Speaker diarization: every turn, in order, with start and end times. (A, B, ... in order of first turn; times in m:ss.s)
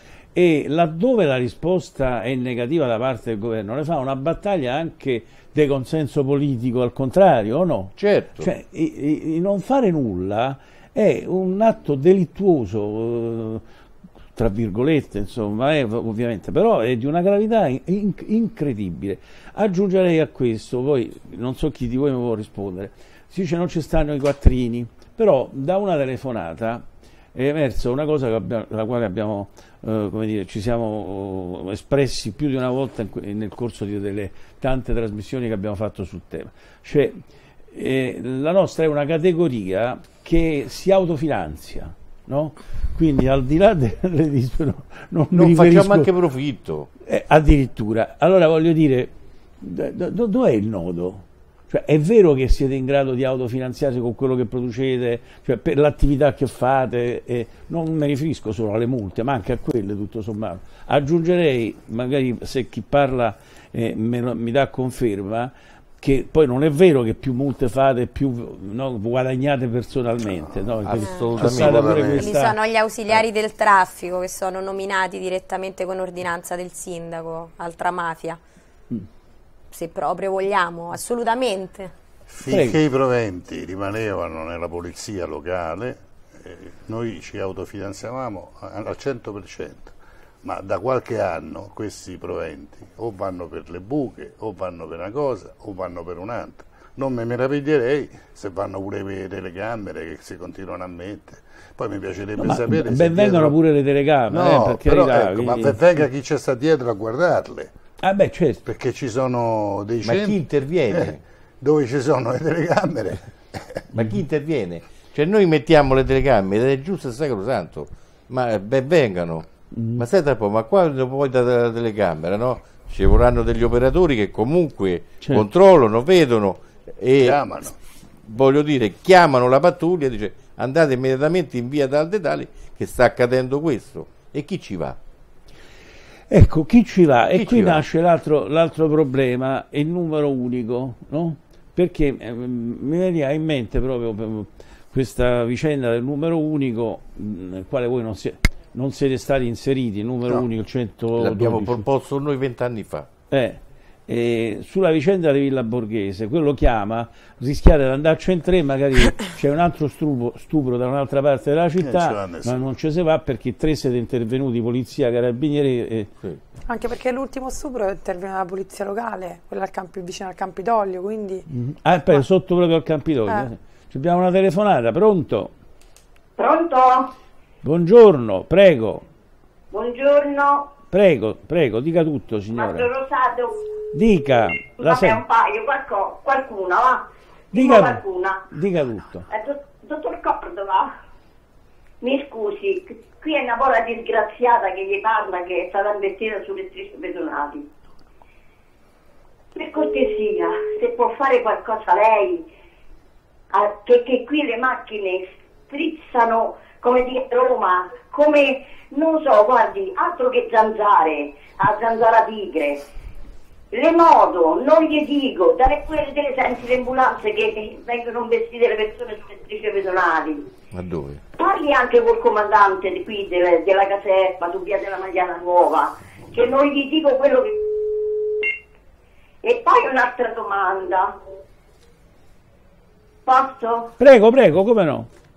0:00.4-0:13.6 A
0:08.0-0:08.5 B
0:14.4-0:26.8 A
0:27.4-0:37.2 A
0:37.7-0:46.1 A
0:45.3-0:46.9 B
0:47.1-1:12.6 A
1:10.8-1:12.3 B
1:11.0-1:11.3 C
1:11.4-1:12.2 D
1:12.2-1:18.4 C
1:19.7-1:21.9 C
1:22.3-1:43.6 D
1:22.5-1:22.8 A
1:42.4-1:45.8 A
1:44.3-1:47.7 D
1:48.0-1:48.6 A
1:48.6-1:50.4 D
1:50.0-1:51.2 B
1:50.9-1:53.8 D
1:53.9-1:59.4 B
1:59.7-2:00.0 A
2:00.0-2:07.4 B
2:07.2-2:07.7 D
2:08.3-2:15.0 B
2:16.3-2:31.8 A
2:17.3-2:17.8 B
2:31.2-2:33.1 B
2:33.3-2:46.1 A
2:41.8-2:42.5 D
2:46.7-2:51.4 E
2:51.5-2:55.5 A
2:56.4-2:57.1 F
2:57.6-2:59.1 A
2:59.7-3:00.7 F
3:00.9-3:02.9 A
3:02.5-3:03.6 F
3:03.9-3:05.2 A
3:04.8-3:08.4 F
3:07.5-3:09.3 A
3:09.3-3:10.9 F
3:12.0-3:17.7 F
3:19.5-3:22.5 F
3:23.5-3:32.8 F
3:33.7-3:40.4 F
3:40.7-3:41.2 B
3:41.4-3:47.6 F
3:49.4-3:51.1 F
3:53.3-3:53.9 F
3:54.0-3:55.1 A